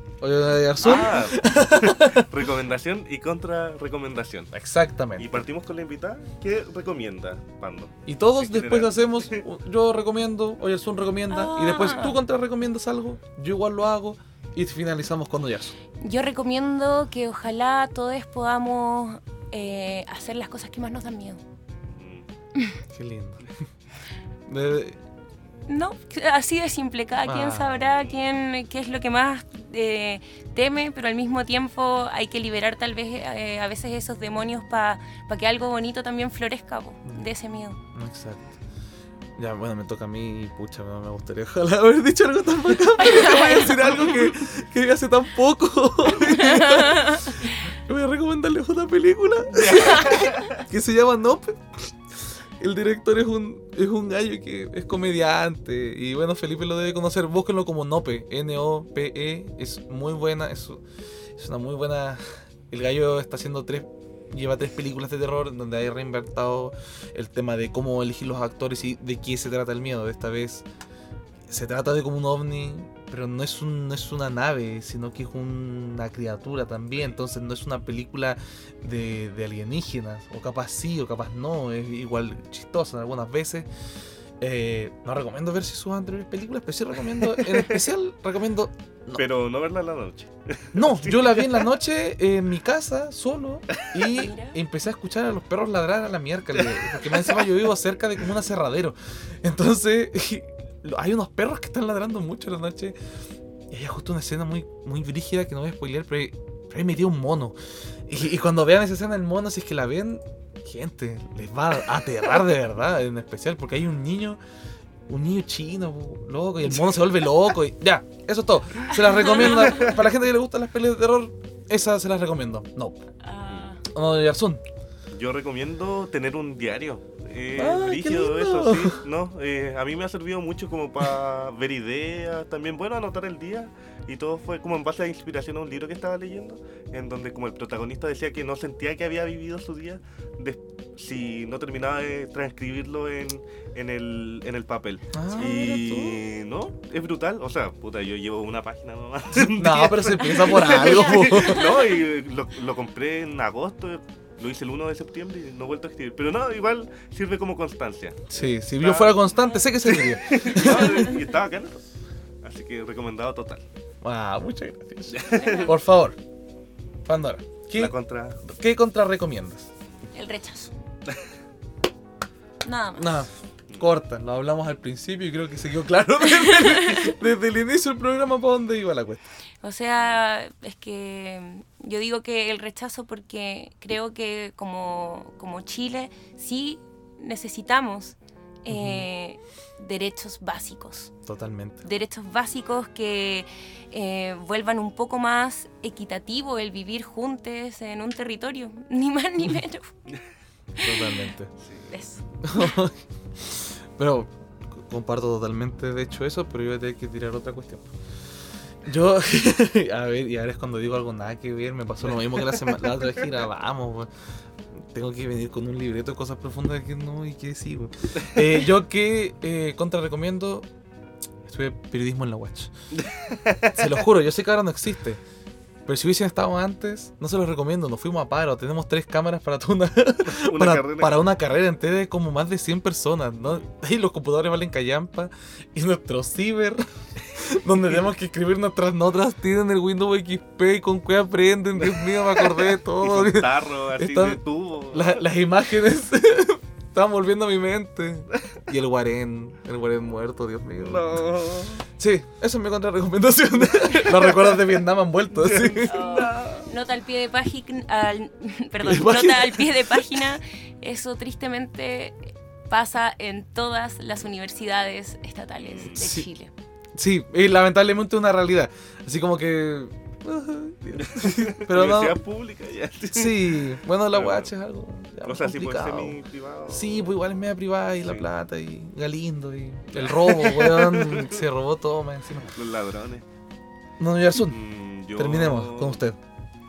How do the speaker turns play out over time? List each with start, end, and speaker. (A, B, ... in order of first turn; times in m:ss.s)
0:00.2-0:02.3 A
0:00.8-0:04.5 B
0:04.5-0:05.4 A
0:05.2-0:09.4 B
0:08.1-0:15.8 A
0:11.3-0:12.2 C
0:16.0-0:21.4 C
0:21.9-0:22.3 B
0:22.9-0:23.6 A
0:24.5-0:25.0 A
0:25.7-0:37.8 C
0:27.2-0:27.8 A
0:27.8-0:28.2 B
0:37.9-0:38.5 A
0:39.4-0:52.0 A
0:43.0-0:44.3 C
0:46.2-0:47.5 C
0:49.5-0:50.6 B
0:49.8-0:50.2 C
0:52.6-1:00.8 A
1:01.4-1:10.6 A
1:11.5-1:23.7 A
1:24.4-1:29.2 A
1:27.2-1:27.8 B
1:29.2-1:31.7 B
1:30.7-1:43.0 A
1:33.7-1:34.0 B
1:34.1-1:34.6 C
1:36.6-1:37.6 B
1:43.7-1:47.6 A
1:48.1-1:54.4 A
1:55.1-2:03.0 A
1:58.9-1:59.9 C
1:59.7-1:59.9 B
2:03.2-2:03.8 C
2:03.4-2:03.8 B
2:03.9-2:04.6 A
2:05.1-2:41.8 B
2:07.6-2:09.0 A
2:25.1-2:26.2 A
2:29.4-2:31.7 A
2:30.6-2:31.9 C
2:38.3-2:41.1 A
2:39.5-2:40.0 C
2:40.5-2:41.2 C
2:42.4-2:43.6 B
2:44.0-2:46.2 A
2:45.1-2:45.7 B
2:45.3-2:45.8 C
2:47.0-2:49.7 A
2:47.8-2:48.4 B
2:50.2-2:50.7 C
2:52.6-2:53.2 C
2:53.0-2:59.3 A
2:56.2-2:57.1 C
2:59.6-3:11.1 C
3:08.7-3:09.1 A
3:11.2-3:11.8 A
3:11.8-3:19.9 C
3:20.8-3:21.3 C
3:20.8-3:21.5 A
3:21.6-3:21.9 B
3:21.9-3:22.8 C
3:22.4-3:27.9 A
3:28.8-3:34.1 A
3:32.1-3:33.2 B
3:34.8-3:40.7 A
3:41.4-3:42.7 A
3:42.9-3:43.9 B
3:43.7-3:45.2 A
3:45.9-4:11.3 A
3:50.3-3:51.2 B
4:01.8-4:05.2 B
4:10.8-4:11.9 B
4:12.0-4:15.9 A
4:14.1-4:14.5 B
4:15.3-4:16.7 B
4:15.8-4:26.5 C
4:18.8-4:20.2 A
4:25.6-4:26.2 B
4:26.0-4:26.3 A
4:27.0-4:32.2 A
4:31.0-4:34.5 B
4:33.1-4:42.5 A
4:35.2-4:37.2 B
4:38.0-4:38.3 B
4:39.9-4:41.5 B
4:42.5-4:43.2 B
4:44.0-4:44.6 A
4:44.4-4:46.0 B
4:45.2-4:46.2 A